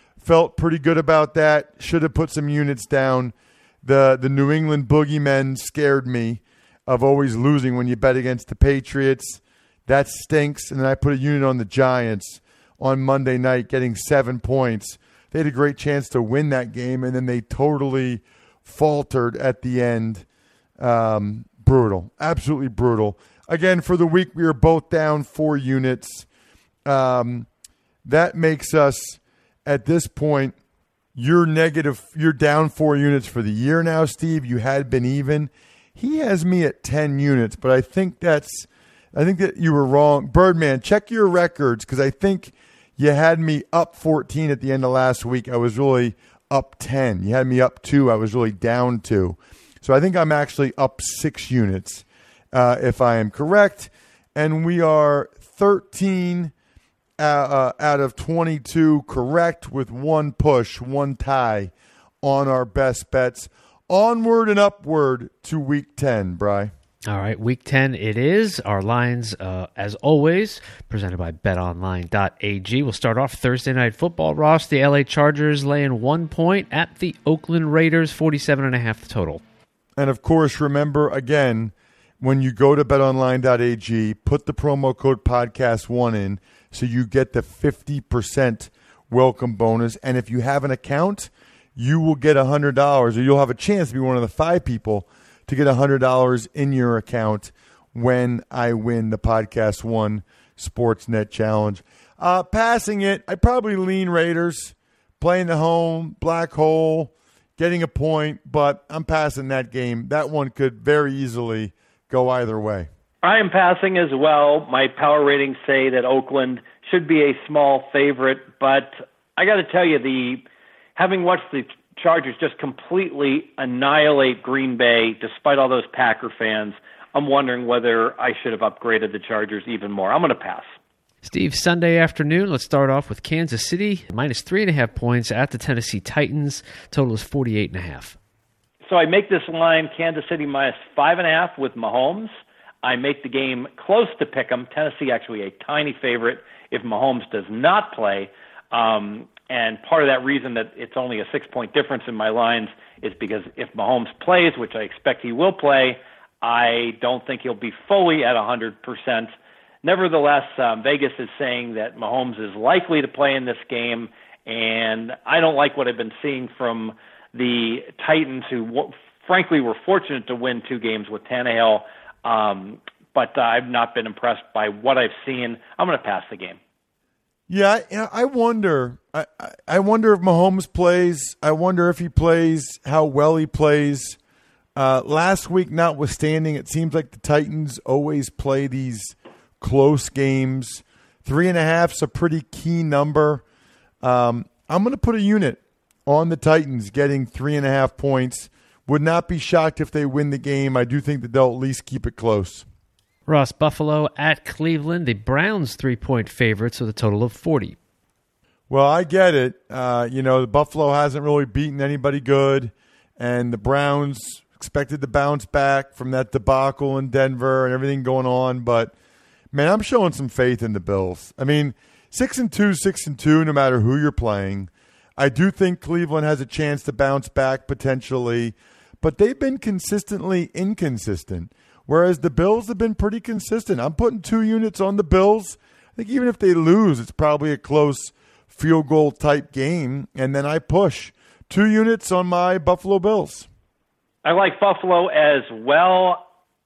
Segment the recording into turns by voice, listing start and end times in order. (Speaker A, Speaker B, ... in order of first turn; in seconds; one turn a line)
Speaker A: 0.2-20.2
Speaker A: 20.8-26.3
Speaker A: 26.9-27.5
Speaker A: 28.0-30.5
Speaker A: 31.1-56.5
Speaker A: 57.2-66.7
Speaker B: 67.1-79.4
Speaker A: 80.0-112.9
Speaker C: 113.2-120.4
Speaker C: 121.0-130.7
Speaker B: 131.2-138.2
Speaker C: 138.8-142.3
Speaker C: 142.8-159.3
Speaker C: 159.8-176.6
Speaker A: 177.5-184.2
Speaker A: 184.8-193.4
Speaker A: 194.0-202.6
Speaker B: 203.3-207.8
Speaker A: 208.7-218.9
Speaker A: 219.5-243.5
Speaker C: 244.2-246.2